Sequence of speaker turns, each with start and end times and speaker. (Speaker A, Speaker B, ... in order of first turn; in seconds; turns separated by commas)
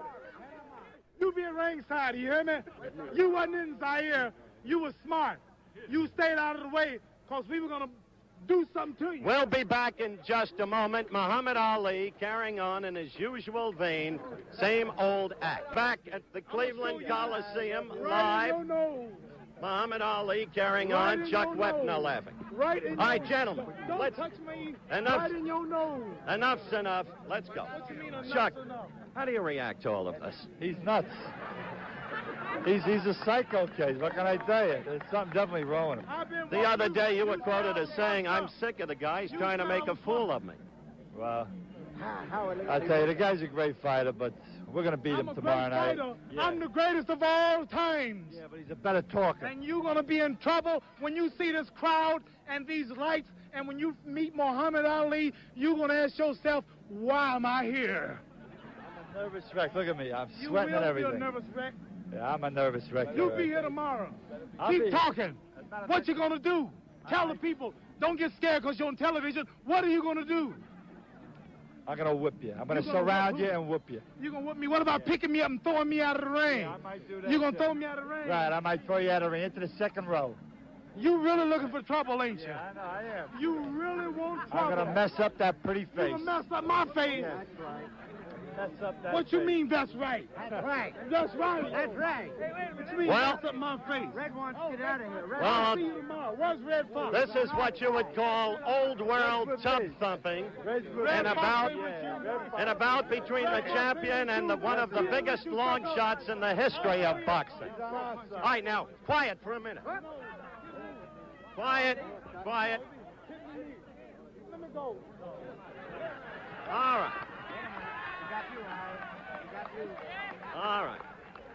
Speaker A: 1.1-9.3, Speaker B: 9.2-18.6, Speaker A: 16.5-19.2, Speaker B: 19.6-22.4, Speaker A: 20.8-26.2, Speaker B: 22.9-24.2, Speaker B: 24.9-25.3, Speaker B: 26.2-30.5, Speaker A: 27.7-29.0, Speaker C: 30.6-31.3, Speaker C: 32.6-36.1, Speaker A: 36.0-38.5, Speaker B: 36.5-40.6, Speaker A: 39.3-40.3, Speaker C: 41.1-41.5, Speaker D: 42.0-43.0, Speaker C: 42.6-46.6, Speaker A: 45.1-48.4, Speaker C: 48.3-49.5, Speaker A: 49.4-58.2, Speaker C: 58.9-61.3, Speaker A: 60.3-61.8, Speaker C: 62.1-63.6, Speaker A: 63.1-70.6, Speaker C: 64.6-66.2, Speaker C: 67.0-67.4, Speaker C: 71.8-74.0, Speaker A: 72.7-73.5, Speaker A: 74.2-78.5, Speaker C: 76.4-80.4, Speaker A: 80.9-82.6, Speaker C: 82.3-83.3, Speaker A: 83.3-85.0, Speaker C: 84.5-86.4, Speaker A: 85.9-87.4, Speaker C: 87.2-87.6, Speaker C: 88.5-89.5, Speaker A: 89.1-92.0, Speaker D: 91.9-92.3, Speaker A: 92.5-94.3, Speaker B: 93.0-93.4, Speaker D: 94.3-95.4, Speaker A: 95.3-97.5, Speaker B: 95.3-95.8, Speaker B: 97.1-101.8, Speaker C: 99.2-100.0, Speaker C: 100.6-102.7, Speaker A: 101.0-106.1, Speaker B: 102.5-107.8, Speaker A: 107.0-108.4, Speaker C: 107.7-108.5, Speaker B: 108.4-109.9, Speaker B: 111.5-112.8, Speaker A: 113.1-113.8, Speaker A: 114.3-115.2, Speaker B: 116.7-117.2, Speaker B: 120.5-121.0